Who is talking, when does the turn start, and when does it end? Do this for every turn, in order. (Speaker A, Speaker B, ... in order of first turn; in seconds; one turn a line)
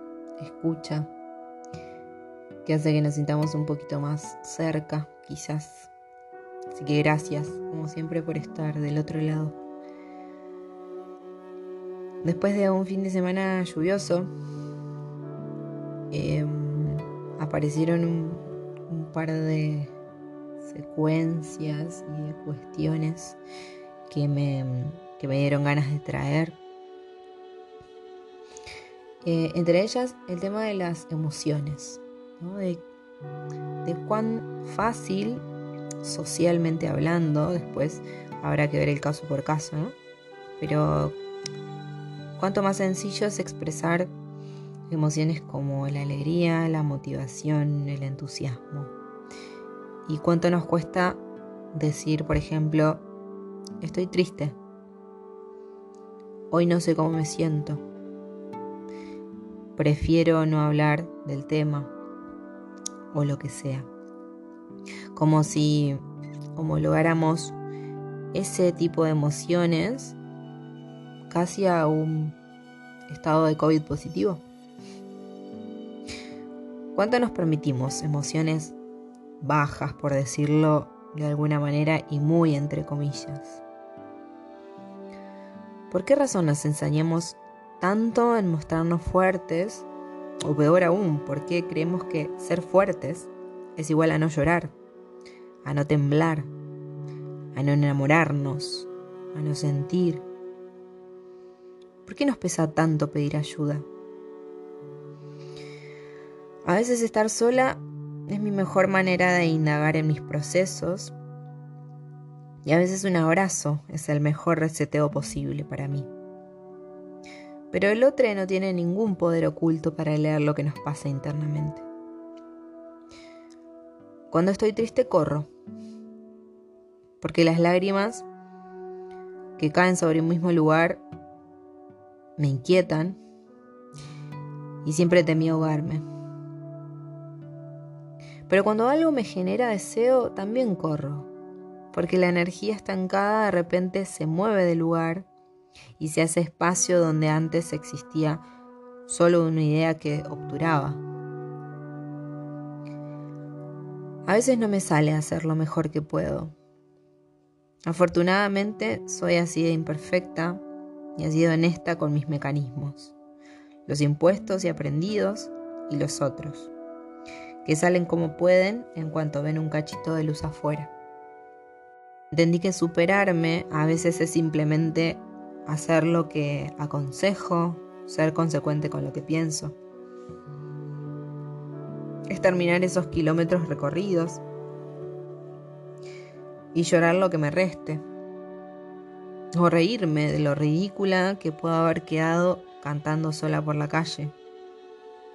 Speaker A: 0.4-1.1
Speaker A: 2.6-5.9
Speaker A: 6.7-9.6
Speaker A: 12.2-14.3
Speaker A: 16.1-19.9
Speaker A: 20.6-23.4
Speaker A: 24.1-26.6
Speaker A: 29.2-32.8
Speaker A: 33.8-35.4
Speaker A: 36.0-40.0
Speaker A: 40.6-41.2
Speaker A: 42.4-44.1
Speaker A: 44.9-48.9
Speaker A: 50.0-51.2
Speaker A: 51.7-53.0
Speaker A: 53.8-54.6
Speaker A: 56.5-57.8
Speaker A: 59.8-61.9
Speaker A: 63.1-63.9
Speaker A: 65.1-66.0
Speaker A: 66.5-67.6
Speaker A: 68.3-70.2
Speaker A: 71.3-72.3
Speaker A: 73.1-74.4
Speaker A: 76.9-78.7
Speaker A: 79.4-83.6
Speaker A: 85.9-89.9
Speaker A: 90.4-94.7
Speaker A: 95.6-96.5
Speaker A: 97.5-100.2
Speaker A: 102.0-103.9
Speaker A: 106.6-111.1
Speaker A: 112.6-116.1
Speaker A: 117.7-121.8
Speaker A: 124.3-125.5
Speaker A: 127.2-128.2
Speaker A: 129.6-131.0
Speaker A: 132.4-133.2
Speaker A: 134.8-136.0
Speaker A: 138.5-141.3
Speaker A: 141.9-145.3
Speaker A: 146.0-148.4
Speaker A: 149.1-151.0
Speaker A: 154.2-156.5
Speaker A: 157.8-160.6
Speaker A: 161.2-163.1
Speaker A: 163.8-166.7
Speaker A: 167.6-170.9
Speaker A: 172.3-179.8
Speaker A: 182.3-184.4
Speaker A: 186.7-188.0
Speaker A: 189.5-194.3